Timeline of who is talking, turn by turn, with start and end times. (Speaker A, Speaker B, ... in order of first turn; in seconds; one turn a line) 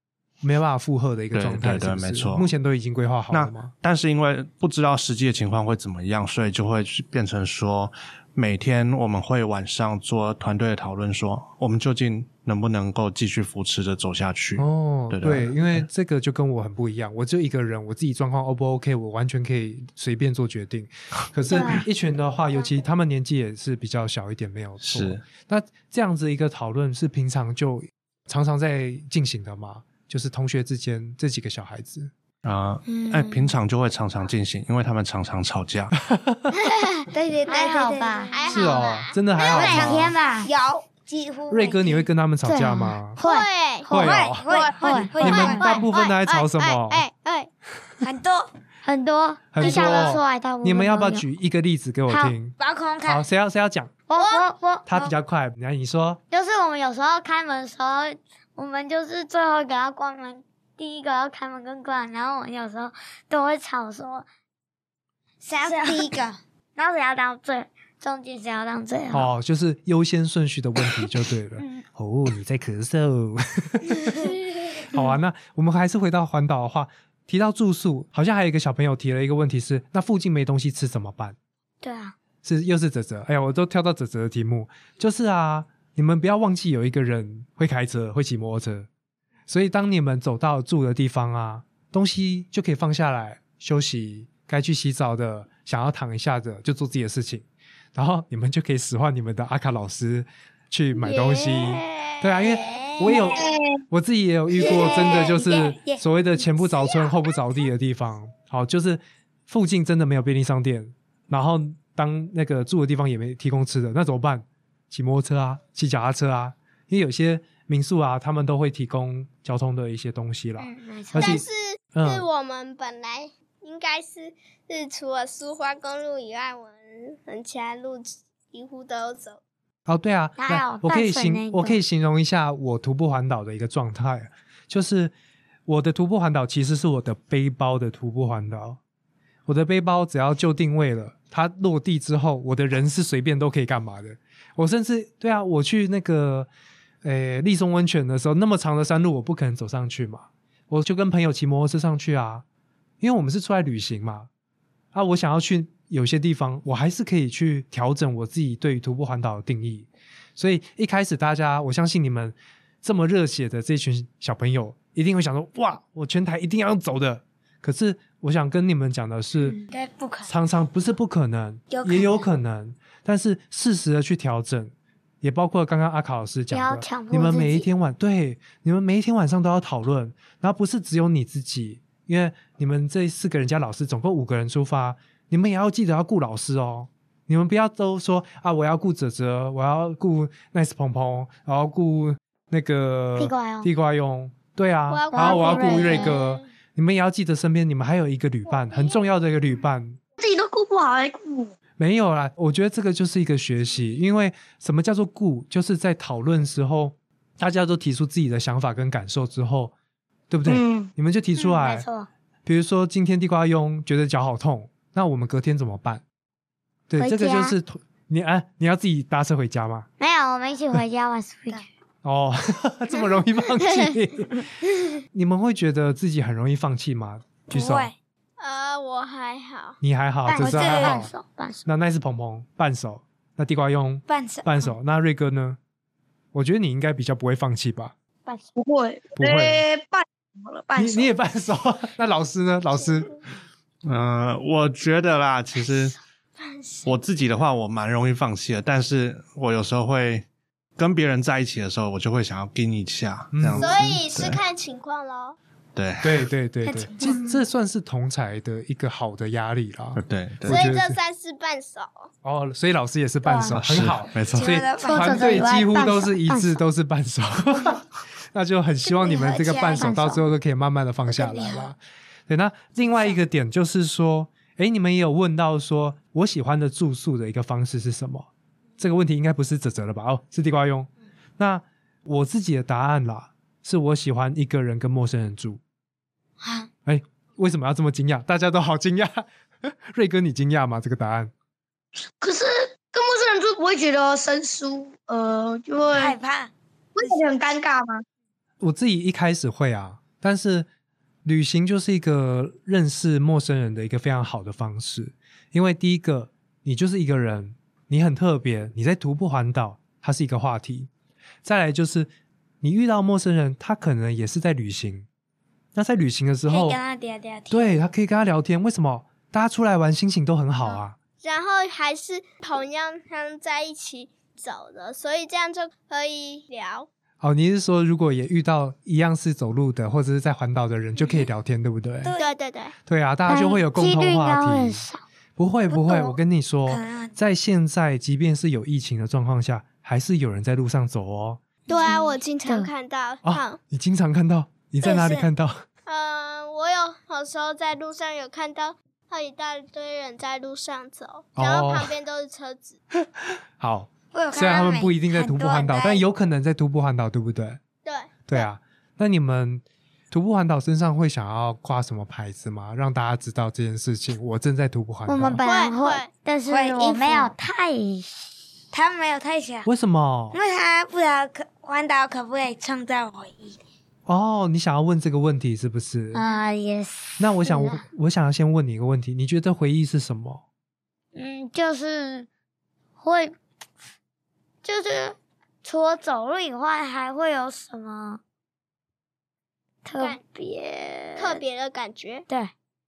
Speaker A: 0.4-3.7
Speaker B: 1.3-2.5
Speaker B: 3.3-15.8
Speaker A: 14.6-32.1
Speaker C: 21.5-21.8
Speaker B: 24.8-25.2
Speaker B: 32.4-35.9
Speaker D: 32.9-33.5
Speaker A: 36.0-36.5
Speaker D: 37.1-38.7
Speaker C: 37.5-38.5
Speaker E: 38.3-39.9
Speaker A: 38.5-40.1
Speaker C: 39.4-40.5
Speaker D: 39.5-42.1
Speaker A: 41.5-43.2
Speaker C: 42.5-45.9
Speaker E: 43.2-43.9
Speaker A: 43.9-44.5
Speaker D: 43.9-45.5
Speaker E: 44.5-47.5
Speaker A: 45.1-47.1
Speaker D: 48.0-48.5
Speaker C: 48.9-51.2
Speaker A: 49.5-53.9
Speaker C: 52.1-52.4
Speaker D: 52.6-53.2
Speaker C: 54.1-54.9
Speaker E: 54.2-54.5
Speaker A: 54.9-56.2
Speaker C: 56.3-64.3
Speaker D: 65.4-66.4
Speaker C: 65.6-66.2
Speaker C: 66.8-69.3
Speaker A: 69.1-81.4
Speaker C: 81.8-82.2
Speaker A: 82.4-88.9
Speaker A: 89.5-122.3
Speaker E: 101.0-102.5
Speaker D: 102.7-103.2
Speaker F: 103.3-103.8
Speaker D: 104.6-106.0
Speaker C: 120.6-121.4
Speaker E: 121.2-129.4
Speaker A: 129.9-135.1
Speaker C: 130.4-131.8
Speaker A: 135.7-138.8
Speaker A: 139.5-146.5
Speaker A: 147.0-152.4
Speaker A: 153.0-154.3
Speaker A: 154.9-169.6
Speaker D: 169.5-170.3
Speaker A: 170.3-200.0
Speaker D: 171.7-172.2
Speaker C: 176.5-177.7
Speaker C: 193.2-193.7
Speaker E: 194.9-196.2
Speaker C: 195.1-196.3
Speaker D: 195.8-196.1
Speaker F: 200.2-201.5
Speaker A: 201.8-209.7
Speaker A: 210.3-211.9
Speaker F: 210.5-210.9
Speaker C: 211.4-212.1
Speaker A: 212.4-216.0
Speaker A: 216.9-219.9
Speaker C: 217.0-217.6
Speaker C: 220.0-221.7
Speaker A: 222.0-224.5
Speaker A: 225.1-227.9
Speaker D: 227.5-227.9
Speaker E: 228.4-229.8
Speaker A: 229.8-231.1
Speaker D: 230.3-231.1
Speaker C: 230.4-231.7
Speaker A: 231.7-235.6
Speaker D: 234.1-234.7
Speaker A: 236.3-237.9
Speaker F: 238.6-241.1
Speaker A: 239.2-239.7
Speaker A: 240.8-243.2
Speaker B: 243.8-246.0
Speaker E: 246.4-246.9
Speaker B: 246.8-250.3
Speaker B: 250.8-254.4
Speaker A: 253.3-254.0
Speaker E: 253.6-255.4
Speaker B: 255.8-256.2
Speaker A: 256.0-261.0
Speaker C: 256.8-257.2
Speaker B: 260.0-260.7
Speaker E: 260.4-262.1
Speaker A: 262.2-285.6
Speaker C: 263.3-263.6
Speaker B: 263.5-264.5
Speaker D: 264.2-265.7
Speaker C: 264.8-266.6
Speaker D: 268.9-270.0
Speaker C: 269.8-270.2
Speaker D: 271.1-271.7
Speaker D: 286.4-286.7
Speaker A: 286.9-291.3
Speaker F: 292.2-296.2
Speaker D: 295.9-297.2
Speaker F: 296.9-298.0
Speaker A: 298.6-300.7
Speaker A: 301.2-310.9
Speaker A: 311.4-312.1
Speaker A: 312.6-315.1
Speaker A: 315.8-316.8
Speaker D: 316.5-317.7
Speaker A: 317.5-321.0
Speaker E: 321.2-326.9
Speaker A: 327.2-332.1
Speaker D: 332.0-332.3
Speaker E: 332.2-332.7
Speaker A: 332.9-341.4
Speaker C: 333.3-335.0
Speaker D: 335.7-337.2
Speaker D: 341.7-342.2
Speaker E: 341.7-343.6
Speaker C: 342.4-342.7
Speaker A: 343.2-345.6
Speaker D: 344.8-345.3
Speaker E: 345.9-352.8
Speaker A: 351.4-351.9
Speaker A: 353.6-357.6
Speaker D: 354.1-356.0
Speaker E: 357.9-358.5
Speaker A: 358.3-365.4
Speaker C: 365.1-368.3
Speaker E: 365.4-366.1
Speaker D: 366.5-367.3
Speaker D: 368.7-369.7
Speaker A: 369.7-370.4
Speaker D: 370.3-373.6
Speaker A: 374.1-376.2
Speaker C: 376.1-377.8
Speaker A: 377.2-380.4
Speaker C: 381.1-382.3
Speaker C: 383.0-383.4
Speaker C: 384.6-388.2
Speaker C: 389.9-391.4
Speaker E: 391.2-392.3